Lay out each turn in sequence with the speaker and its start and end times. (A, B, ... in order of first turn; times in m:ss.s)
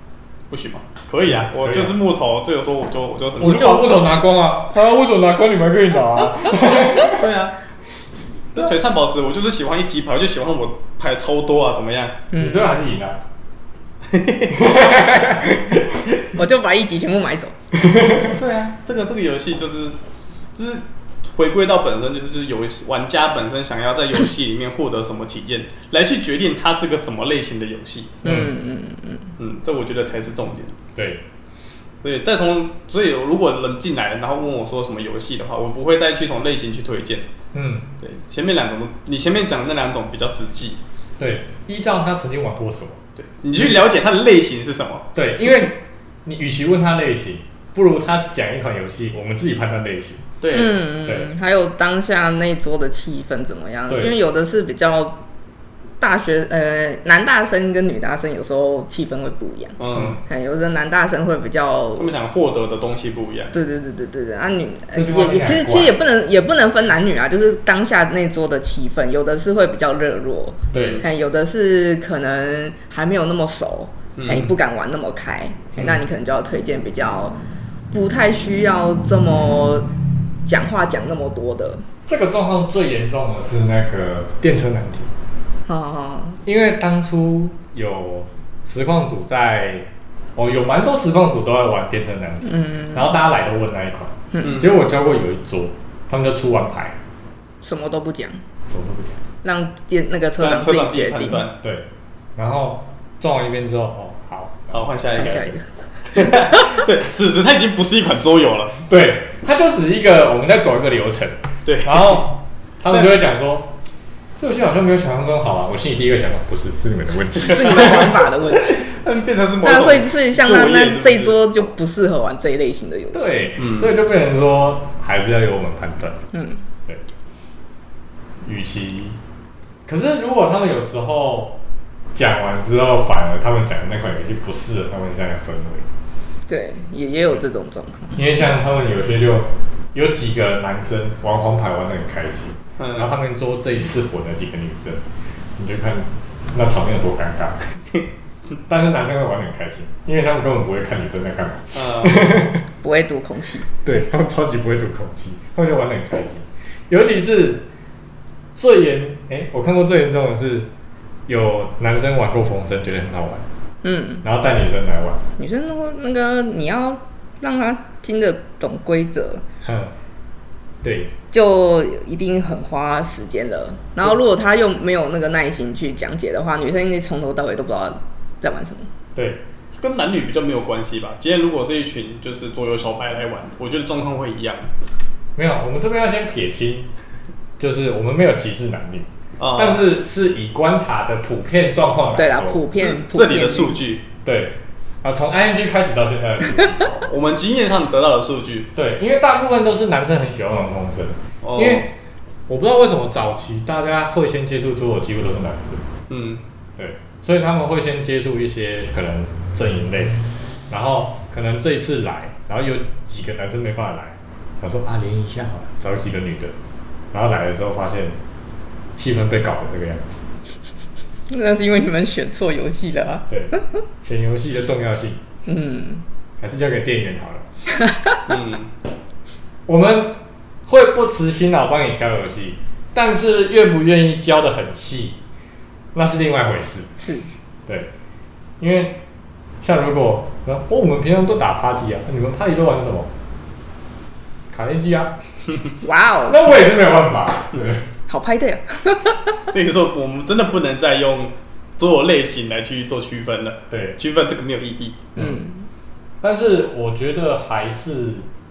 0:00.5-0:03.9 A
0:01.2-0:02.0 B
0:03.4-0:07.2 B
0:03.5-0:03.8 C
0:07.0-0:07.5 A
0:08.5-0:12.2 A
0:12.3-0:12.7 C
0:12.3-0:13.2 B
0:14.1-0:14.8 A
0:14.5-0:15.8 B
0:16.3-0:17.5 C
0:17.8-0:18.3 B
0:18.3-0:20.0 A
0:20.5-0:28.2 A
0:28.2-0:28.5 B
0:28.2-0:29.3 C
0:29.4-0:30.8 A
0:30.9-0:31.2 B
0:32.0-0:37.3 A
0:37.5-0:37.9 B
0:38.0-0:40.8 A
0:41.2-0:43.0 B
0:43.2-0:45.1 A
0:43.5-0:43.8 B
0:45.1-0:50.2 B
0:50.4-0:50.8 A
0:50.5-0:55.2 C
0:53.9-0:54.2 B
0:56.0-1:02.1 C
0:59.8-1:00.2 A
0:59.9-1:00.2 B
1:02.0-1:03.5 A
1:03.5-1:17.4 C
1:04.9-1:06.0 B
1:10.7-1:11.0 B
1:10.7-1:11.0 A
1:14.2-1:14.5 A
1:17.9-1:19.9 C
1:20.4-1:21.8 C
1:22.1-1:25.1 B
1:25.7-1:26.4 C
1:26.4-1:37.0 B
1:32.5-1:33.0 C
1:34.3-1:34.6 C
1:34.4-1:34.7 A
1:37.6-1:38.4 C
1:38.7-1:39.2 B
1:39.4-1:41.4 C
1:40.4-1:41.6 A
1:41.6-1:45.5 B
1:44.7-1:45.4 A
1:45.1-1:45.6 C
1:46.1-1:48.8 A
1:46.2-1:46.6 C
1:48.9-1:53.7 B
1:51.6-1:52.3 A
1:54.4-1:58.2 B
1:57.4-1:58.8 C
1:57.4-2:01.6 A
1:59.6-2:03.3 C
2:03.1-2:06.2 B
2:03.6-2:03.9 A
2:06.3-2:06.6 C
2:08.4-2:09.2 B
2:09.9-2:11.6 B
2:12.1-2:15.9 B
2:16.5-2:18.2 C
2:18.1-2:25.0 B
2:22.8-2:23.1 A
2:25.6-2:27.7 B
2:28.7-2:32.6 B
2:31.7-2:32.2 A
2:32.8-2:33.7 C
2:33.8-2:37.6 B
2:38.5-2:40.7 B
2:41.3-2:43.4 B
2:43.8-2:44.2 C
2:44.2-2:45.2 B
2:45.4-2:49.4 C
2:49.6-2:49.9 B
2:50.8-2:51.1 B
2:51.3-2:58.9 C
2:59.1-2:59.4 B
2:59.8-3:04.7 A
3:05.4-3:06.9 B
3:07.6-3:12.6 B
3:09.4-3:09.8 A
3:12.2-3:13.8 C
3:12.7-3:14.0 A
3:14.2-3:17.1 B
3:17.1-3:18.7 A
3:18.7-3:21.9 B
3:21.4-3:21.9 A
3:22.5-3:25.8 B
3:26.1-3:26.4 A
3:26.8-3:30.2 B
3:30.7-3:36.5 B
3:37.1-3:38.2 B
3:39.0-3:40.2 B
3:41.3-3:43.6 C
3:43.3-3:45.2 B
3:45.5-3:46.0 C
3:46.4-3:47.4 B
3:47.8-3:48.2 C
3:48.3-3:48.7 A
3:49.7-3:55.2 B
3:55.9-3:56.9 B
3:57.0-3:57.3 C
3:58.6-3:59.0 B
3:59.6-4:03.1 B
4:04.5-4:05.2 B
4:05.8-4:06.4 C
4:06.2-4:07.9 B
4:08.1-4:09.4 C
4:09.5-4:15.1 A
4:13.7-4:14.0 B
4:15.2-4:15.7 C
4:16.2-4:18.3 B